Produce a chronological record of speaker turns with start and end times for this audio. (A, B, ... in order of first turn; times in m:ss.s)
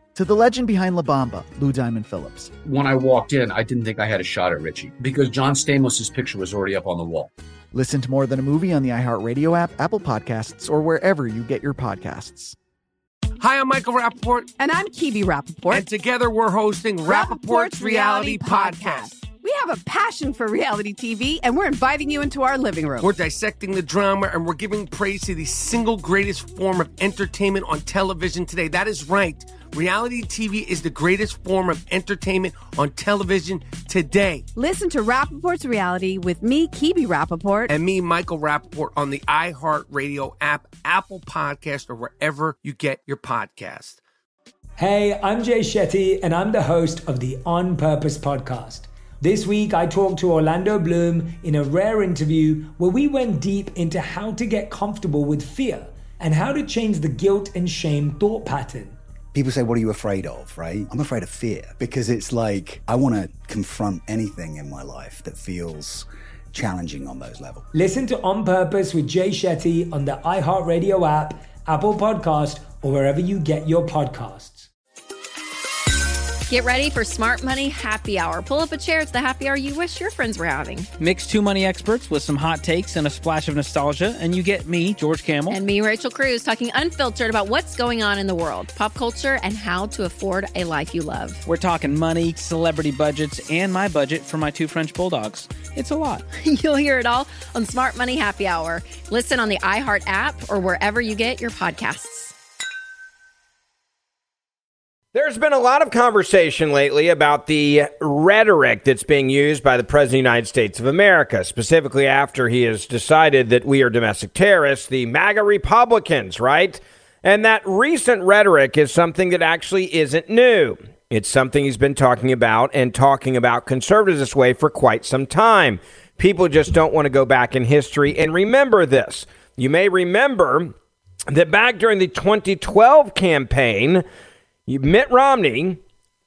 0:00.2-0:02.5 A
0:02.6-0:07.3 B
0:07.7-0:12.6 A
0:13.4-0:14.5 C
0:14.6-0:15.9 D
0:15.7-0:19.1 C
0:17.1-0:23.1 D
0:23.0-0:34.5 C
0:34.6-0:37.7 D
0:37.7-0:44.0 C
0:44.8-0:59.0 E
0:59.3-1:07.7 F
1:07.7-1:14.7 E
1:16.5-1:20.9 G
1:21.0-1:25.6 H
1:25.5-1:31.4 G
1:31.5-1:36.2 H
1:36.4-1:42.4 G
1:45.1-2:10.7 I
2:11.3-2:14.0 I
2:14.7-2:15.8 I